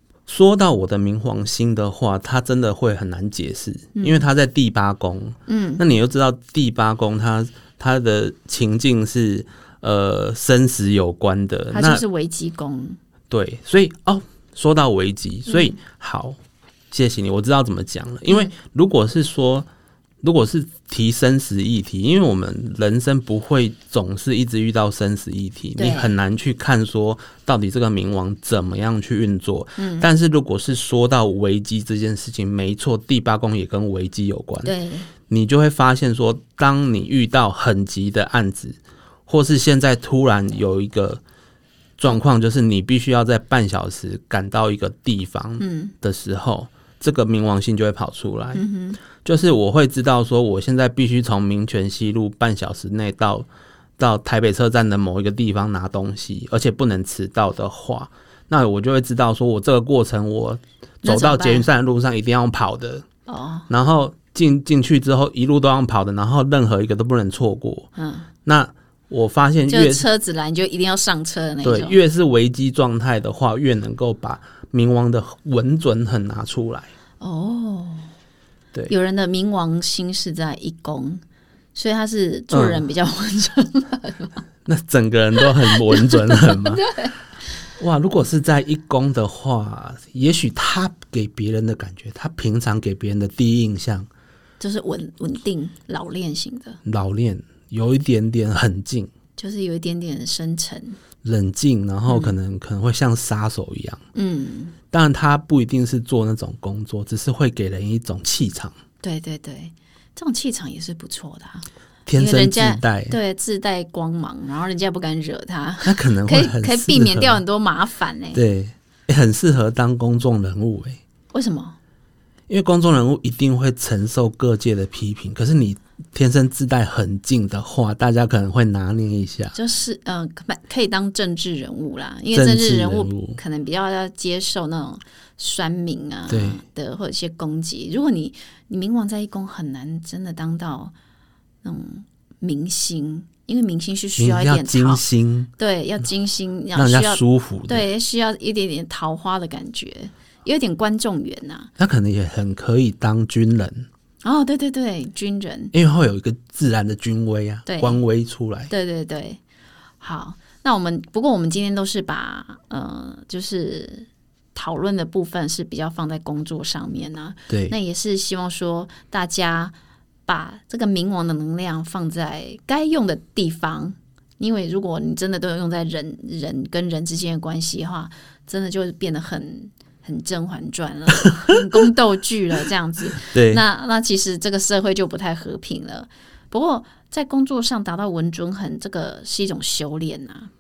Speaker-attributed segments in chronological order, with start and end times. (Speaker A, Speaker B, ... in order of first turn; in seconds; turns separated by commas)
Speaker A: 0.3-12.0, Speaker B: 3.9-4.2, Speaker B: 5.5-5.8, Speaker B: 11.7-13.0, Speaker A: 13.3-16.4, Speaker B: 15.5-15.7, Speaker A: 16.9-19.7, Speaker B: 18.3-18.5, Speaker A: 20.2-34.7, Speaker B: 25.8-26.1, Speaker B: 29.8-30.1, Speaker B: 34.6-35.1, Speaker A: 35.3-41.2, Speaker A: 42.0-48.6, Speaker B: 45.6-45.9, Speaker B: 48.5-49.0, Speaker A: 49.2-63.0, Speaker B: 61.0-61.7, Speaker B: 63.3-63.7, Speaker A: 63.7-67.9, Speaker B: 68.0-68.3, Speaker A: 68.5-70.1, Speaker B: 69.7-72.0, Speaker A: 71.6-76.9, Speaker B: 77.2-78.1, Speaker B: 78.9-81.2, Speaker B: 81.7-84.4, Speaker A: 82.5-82.8, Speaker A: 84.6-86.8, Speaker B: 85.4-87.3, Speaker A: 87.8-94.1, Speaker B: 94.6-96.8, Speaker A: 96.8-99.1, Speaker B: 99.4-101.0, Speaker A: 101.2-104.0, Speaker B: 102.1-102.3, Speaker B: 104.1-104.8, Speaker A: 104.9-108.7, Speaker B: 109.0-118.4, Speaker A: 112.1-113.2, Speaker A: 115.8-117.4, Speaker A: 118.3-121.0, Speaker B: 121.3-121.8, Speaker A: 122.5-129.5, Speaker B: 129.5-140.9, Speaker A: 132.3-133.4, Speaker A: 136.3-136.6, Speaker B: 141.6-145.0, Speaker A: 144.2-145.5, Speaker B: 145.6-151.7, Speaker A: 146.8-147.8, Speaker A: 151.8-153.9, Speaker B: 154.2-155.7, Speaker A: 155.7-158.7, Speaker B: 157.7-158.0, Speaker B: 158.7-159.4, Speaker B: 160.0-169.7, Speaker A: 167.5-167.7, Speaker B: 170.3-190.5, Speaker A: 183.2-183.6